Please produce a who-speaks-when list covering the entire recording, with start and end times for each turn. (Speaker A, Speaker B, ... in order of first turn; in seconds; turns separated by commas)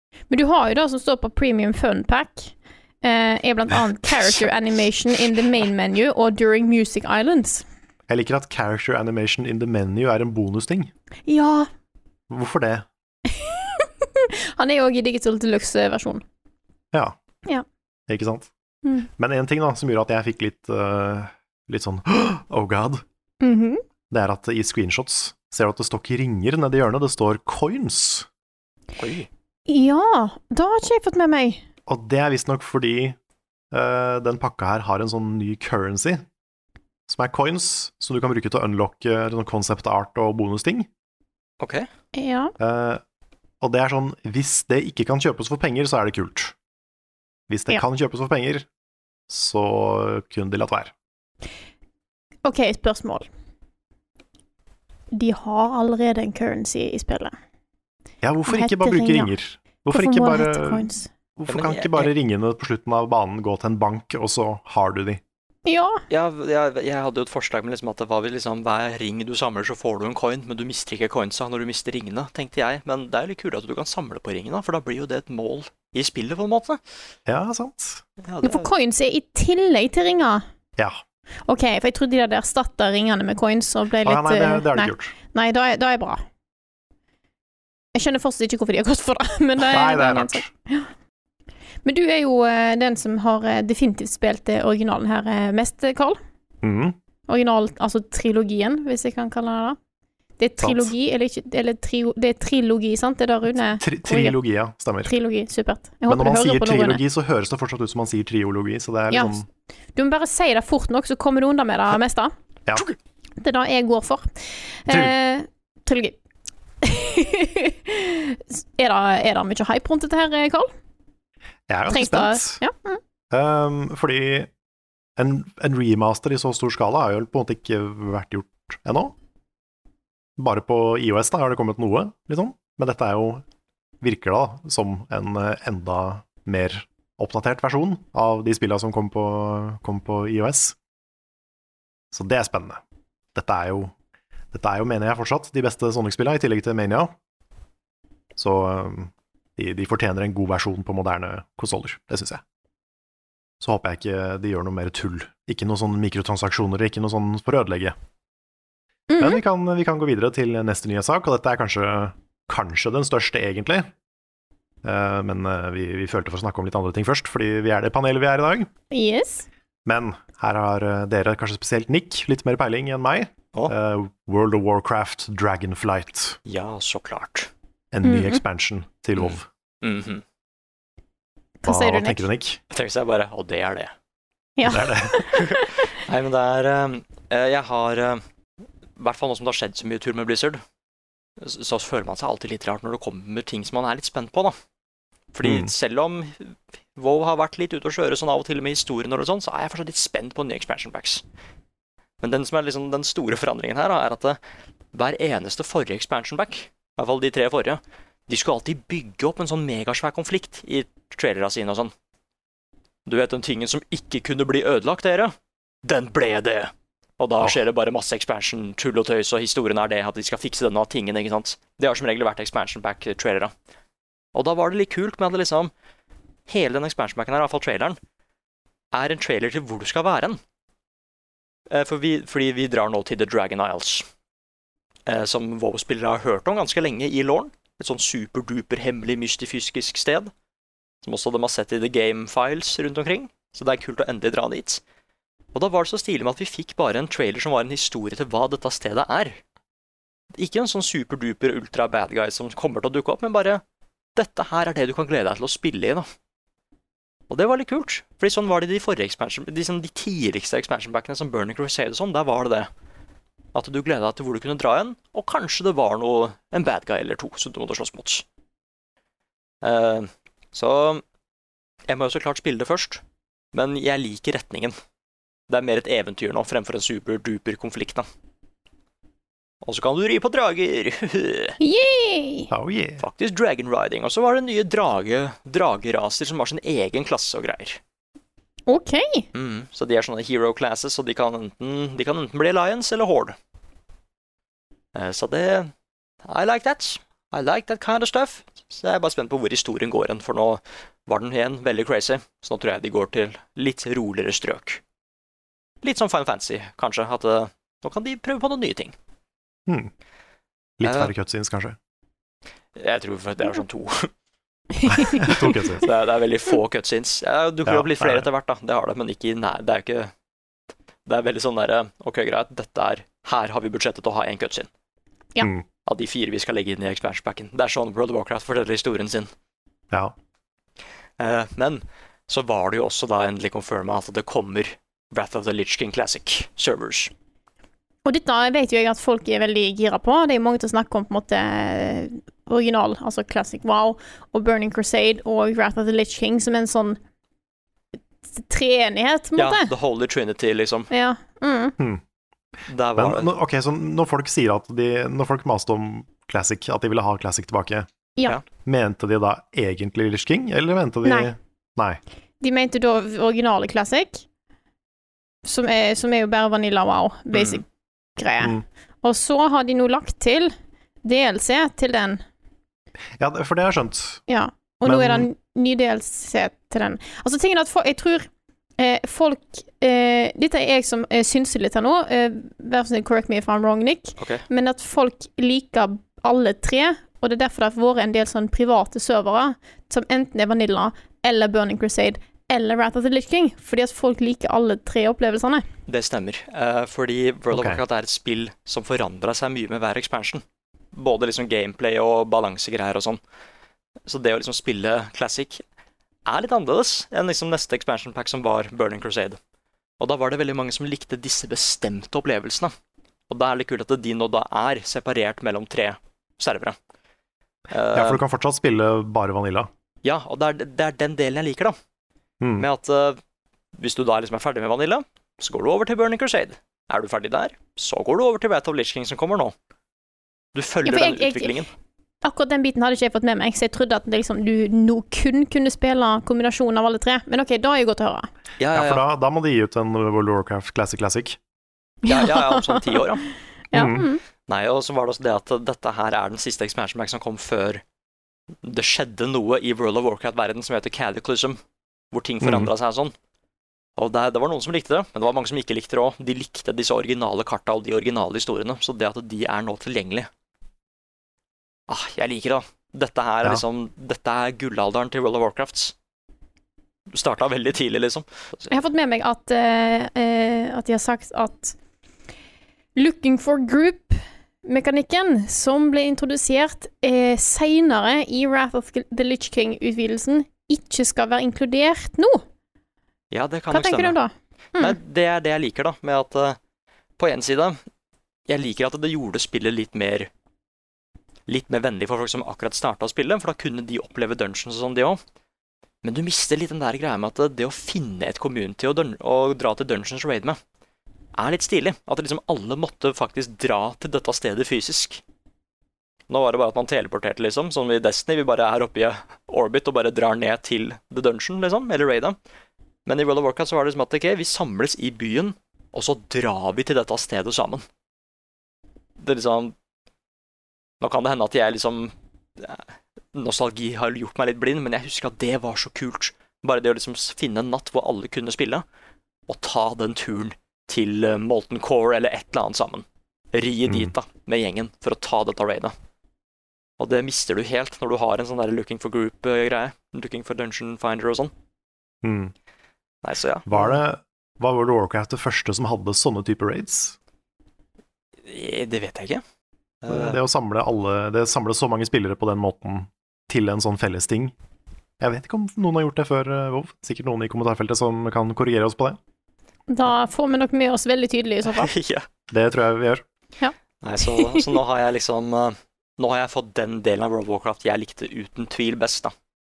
Speaker A: 0.3-7.6, Speaker B: 8.1-10.9, Speaker A: 11.3-11.7, Speaker B: 12.3-12.9, Speaker A: 13.3-16.2, Speaker B: 18.1-18.5, Speaker B: 19.1-23.0, Speaker A: 23.4-23.8, Speaker B: 24.1-28.3, Speaker C: 29.0-29.3, Speaker A: 29.7-31.6, Speaker B: 31.9-33.2, Speaker B: 33.7-36.2, Speaker B: 37.1-40.9, Speaker C: 41.6-41.9, Speaker A: 42.1-42.5, Speaker B: 42.6-43.0, Speaker B: 43.6-46.5, Speaker B: 47.5-48.7, Speaker B: 49.3-50.9, Speaker A: 52.4-53.3, Speaker A: 55.1-57.3, Speaker B: 58.2-65.2, Speaker A: 58.5-59.3, Speaker A: 59.9-61.1, Speaker C: 61.5-62.1, Speaker A: 65.7-66.0, Speaker C: 66.1-76.8, Speaker B: 77.2-78.0, Speaker C: 78.2-78.7, Speaker A: 78.4-80.4, Speaker A: 81.5-86.2, Speaker B: 84.0-85.1, Speaker A: 87.9-90.9, Speaker B: 89.6-90.5, Speaker A: 91.8-96.2, Speaker B: 96.6-97.0, Speaker A: 97.3-99.8, Speaker A: 100.4-104.4, Speaker B: 100.6-100.9, Speaker B: 103.6-105.1, Speaker A: 105.0-107.0, Speaker B: 106.1-109.5, Speaker A: 109.1-109.4, Speaker A: 109.9-112.3, Speaker A: 113.4-114.3, Speaker A: 114.8-116.2, Speaker B: 114.9-115.1, Speaker A: 116.8-120.7, Speaker B: 121.7-122.6, Speaker A: 121.9-123.0, Speaker B: 123.3-124.5, Speaker B: 125.2-129.1, Speaker B: 130.4-133.4, Speaker B: 134.0-140.8, Speaker B: 142.1-142.8, Speaker B: 143.3-143.9, Speaker B: 144.5-147.1, Speaker B: 148.3-152.4, Speaker B: 153.6-157.9, Speaker A: 159.1-159.4, Speaker B: 159.2-163.9, Speaker B: 164.8-168.7, Speaker A: 168.9-169.5, Speaker B: 169.8-176.4, Speaker C: 176.4-177.5, Speaker B: 177.9-179.5, Speaker A: 178.0-178.4, Speaker C: 179.2-180.2, Speaker A: 181.6-182.2, Speaker B: 181.7-182.6, Speaker C: 182.7-183.9, Speaker A: 184.6-185.7, Speaker B: 184.7-185.3, Speaker C: 185.3-188.2, Speaker C: 189.0-190.6, Speaker C: 191.4-194.6, Speaker C: 195.3-201.2, Speaker B: 195.4-195.7, Speaker C: 202.2-204.4, Speaker C: 204.9-211.9, Speaker C: 213.1-215.3, Speaker C: 215.8-223.5, Speaker C: 224.3-225.7, Speaker C: 226.5-228.0, Speaker C: 228.9-230.4, Speaker C: 231.7-234.1, Speaker C: 235.1-240.3, Speaker C: 241.0-244.8, Speaker C: 245.5-249.4, Speaker C: 250.3-253.6, Speaker C: 254.2-256.1, Speaker C: 257.3-262.7, Speaker C: 263.5-268.2, Speaker C: 269.6-271.0, Speaker C: 271.9-273.0, Speaker C: 273.5-274.7, Speaker C: 275.5-278.1, Speaker C: 279.6-281.6, Speaker A: 281.6-282.5, Speaker B: 282.5-283.0, Speaker C: 283.0-287.8, Speaker A: 288.7-289.3, Speaker C: 289.3-293.4, Speaker C: 294.9-295.7, Speaker C: 296.2-304.8, Speaker C: 305.8-308.9, Speaker B: 309.7-309.9, Speaker B: 310.8-311.8, Speaker C: 310.8-311.1, Speaker C: 312.8-314.1, Speaker B: 314.9-315.9, Speaker A: 314.9-315.2, Speaker C: 315.2-320.1, Speaker B: 317.6-318.3, Speaker C: 321.1-324.7, Speaker C: 325.9-329.3, Speaker C: 331.2-337.1, Speaker A: 338.0-347.0, Speaker A: 348.4-349.7, Speaker C: 349.4-350.9, Speaker A: 350.9-351.8, Speaker C: 352.7-353.3, Speaker B: 353.0-357.9, Speaker B: 358.6-362.0, Speaker A: 361.0-361.3, Speaker A: 362.4-364.2, Speaker A: 365.4-367.6, Speaker C: 367.3-367.6, Speaker A: 368.2-370.5, Speaker A: 371.0-372.2, Speaker B: 373.2-374.2, Speaker A: 374.3-395.6, Speaker B: 374.8-375.3, Speaker C: 384.2-384.4, Speaker C: 395.9-403.2, Speaker B: 397.5-397.8, Speaker C: 404.1-405.6, Speaker C: 406.2-409.4, Speaker C: 410.0-412.7, Speaker C: 413.3-416.8, Speaker C: 417.7-418.2, Speaker B: 417.9-419.7, Speaker C: 420.0-421.8, Speaker B: 422.4-422.7, Speaker C: 422.6-423.2, Speaker C: 423.8-429.5, Speaker C: 430.5-431.7, Speaker A: 430.8-431.6, Speaker A: 432.2-438.3, Speaker C: 438.6-439.0, Speaker B: 438.7-441.4, Speaker A: 442.1-443.0, Speaker C: 442.1-443.3, Speaker A: 443.7-444.2, Speaker B: 443.7-444.1, Speaker C: 444.5-447.8, Speaker C: 448.6-451.6, Speaker C: 452.1-453.1, Speaker B: 452.4-452.7, Speaker C: 454.0-460.3, Speaker C: 461.9-465.9, Speaker C: 467.1-468.7, Speaker A: 468.7-471.7, Speaker A: 472.9-482.4, Speaker C: 483.3-484.2, Speaker A: 483.7-485.0, Speaker C: 484.8-486.6, Speaker C: 487.2-487.8, Speaker C: 488.5-490.3, Speaker C: 491.5-495.2, Speaker C: 496.0-500.6, Speaker C: 501.4-505.2, Speaker C: 506.3-512.4, Speaker C: 513.0-517.8, Speaker C: 519.2-519.7, Speaker C: 521.0-528.8, Speaker C: 529.5-535.9, Speaker B: 533.9-534.1, Speaker C: 537.0-541.5, Speaker B: 542.2-542.5, Speaker C: 543.2-544.0, Speaker B: 543.7-547.1, Speaker C: 548.5-549.4, Speaker C: 550.0-550.4, Speaker B: 550.1-554.5, Speaker B: 555.2-559.2, Speaker A: 559.9-561.9, Speaker C: 561.7-562.3, Speaker B: 562.5-563.2, Speaker A: 563.6-564.8, Speaker C: 564.0-569.3